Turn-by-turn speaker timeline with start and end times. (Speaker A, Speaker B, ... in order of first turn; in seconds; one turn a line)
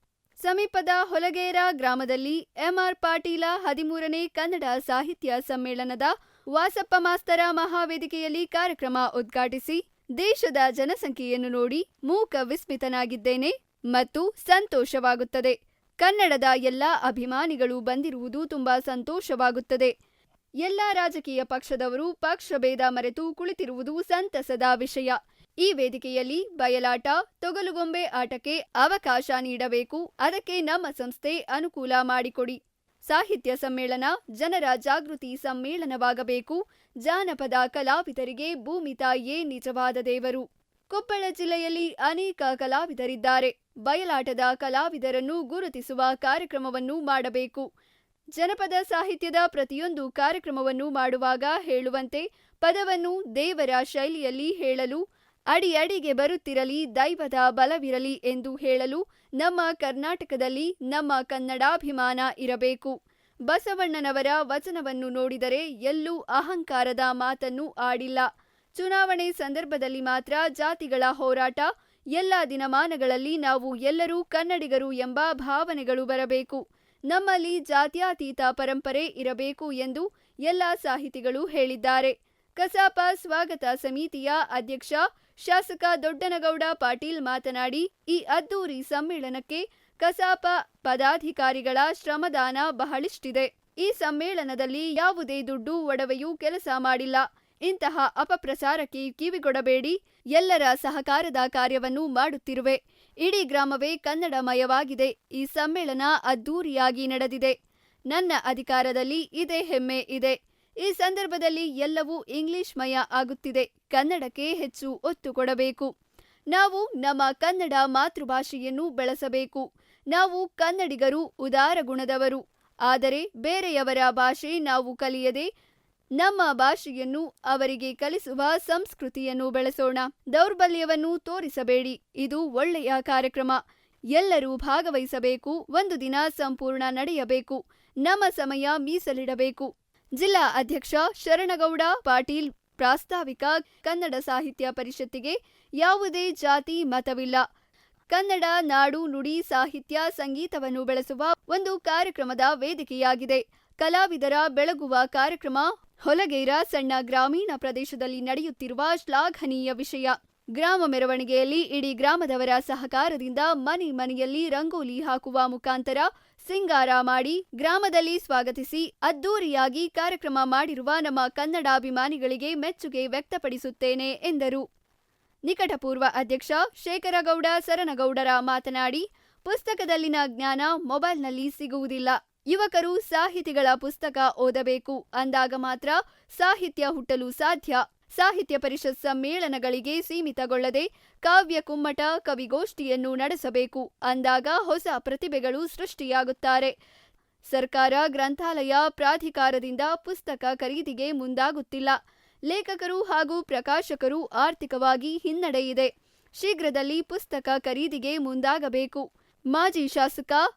Speaker A: 0.4-19.9
Speaker A: 20.6-47.7
Speaker A: 48.4-55.0
Speaker A: 55.5-63.0
Speaker A: 63.5-107.5
Speaker A: 108.1-115.9
Speaker A: 116.5-125.5
Speaker A: 126.2-133.6
Speaker A: 134.1-147.4
Speaker A: 148.1-174.6
Speaker A: 175.5-196.7
Speaker A: 197.5-201.9
Speaker A: 202.5-210.4